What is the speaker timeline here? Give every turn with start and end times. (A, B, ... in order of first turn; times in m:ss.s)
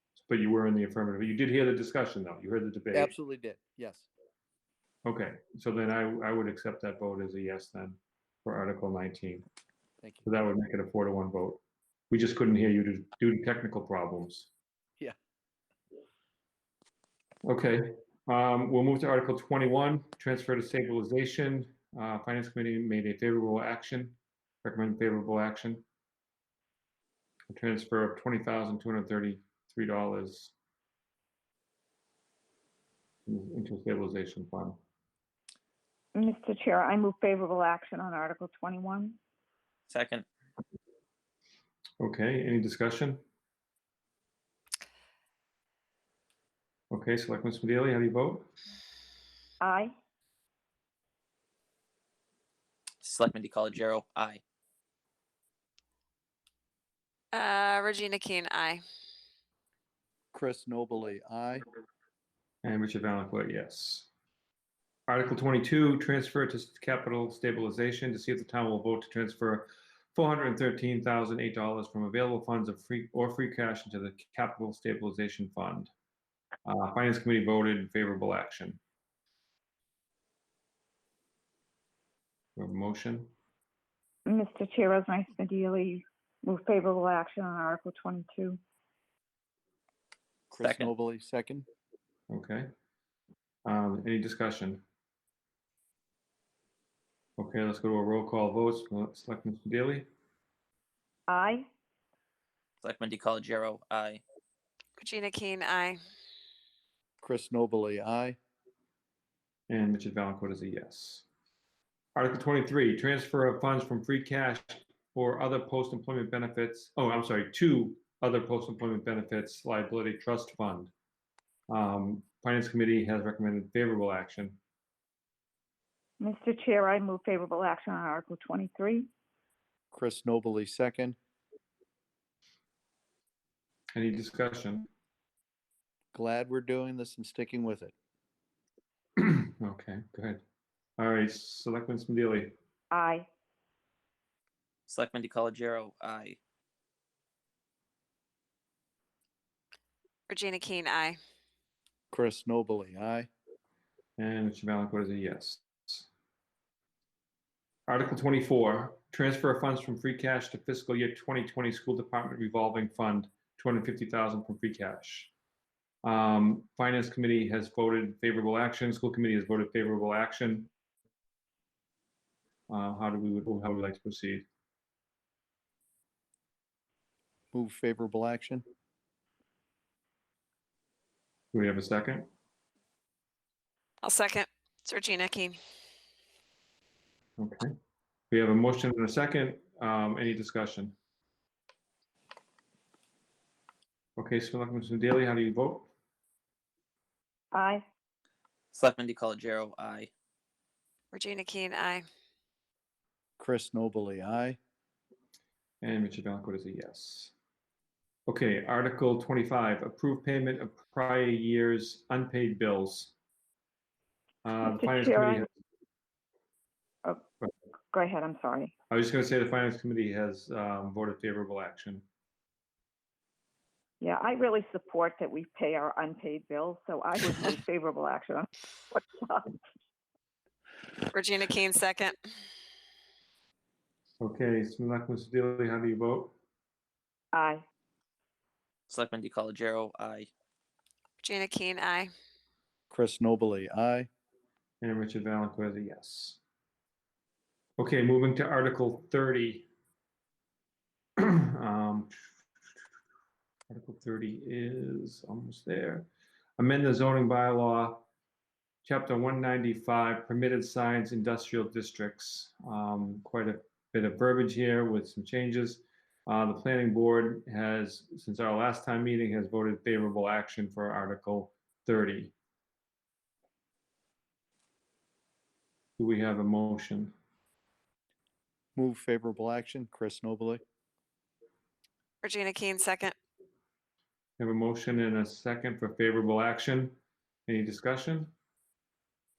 0:00.3-0:03.1 A
0:02.9-0:04.1 B
0:05.0-0:09.4 A
0:10.0-0:10.3 B
0:10.2-0:11.6 A
0:12.1-0:14.5 A
0:17.4-0:25.8 A
0:27.5-0:30.5 A
0:33.3-0:34.8 A
0:36.2-0:39.2 C
0:39.9-0:40.2 D
0:42.0-0:43.2 A
0:46.9-0:48.5 A
0:49.6-0:49.9 C
0:53.0-0:54.4 D
0:57.3-0:58.8 E
1:00.3-1:01.6 B
1:02.6-1:04.1 A
1:05.1-1:15.9 A
1:16.6-1:18.8 A
1:22.6-1:23.3 A
1:24.3-1:28.6 C
1:30.5-1:31.7 B
1:30.6-1:30.9 D
1:32.3-1:32.7 A
1:33.7-1:34.8 A
1:37.4-1:40.1 A
1:41.3-1:41.7 C
1:42.8-1:44.2 D
1:45.0-1:46.0 E
1:47.2-1:48.4 B
1:49.7-1:51.2 A
1:52.2-2:00.9 A
2:01.7-2:04.6 A
2:06.2-2:09.1 C
2:09.9-2:11.2 B
2:13.9-2:14.9 A
2:16.1-2:17.9 B
2:19.2-2:20.4 A
2:21.0-2:22.5 A
2:22.9-2:23.3 C
2:24.9-2:26.4 D
2:30.3-2:31.2 E
2:32.1-2:33.3 B
2:34.2-2:36.1 A
2:37.9-2:45.3 A
2:46.0-2:50.7 A
2:52.7-2:54.5 A
2:57.5-2:58.6 B
3:01.5-3:02.3 A
3:04.0-3:05.6 E
3:07.4-3:07.7 A
3:08.3-3:11.0 A
3:14.2-3:15.9 A
3:17.5-3:17.8 C
3:18.7-3:20.1 D
3:21.1-3:22.1 E
3:23.4-3:24.6 B
3:25.8-3:27.3 A
3:28.3-3:33.1 A
3:34.4-3:35.5 A
3:34.7-3:35.4 C
3:37.9-3:38.7 C
3:38.9-3:42.0 A
3:44.0-3:49.5 C
3:51.1-3:52.2 E
3:54.2-3:56.3 A
3:57.3-3:57.6 C
3:58.9-4:00.3 D
4:01.2-4:02.1 E
4:02.9-4:04.1 B
4:04.8-4:06.4 A
4:07.8-4:09.7 A
4:11.2-4:12.3 A
4:13.7-4:18.0 A
4:18.8-4:32.3 A
4:36.0-4:37.1 A
4:38.8-4:40.6 B
4:42.2-4:43.1 E
4:44.4-4:48.3 A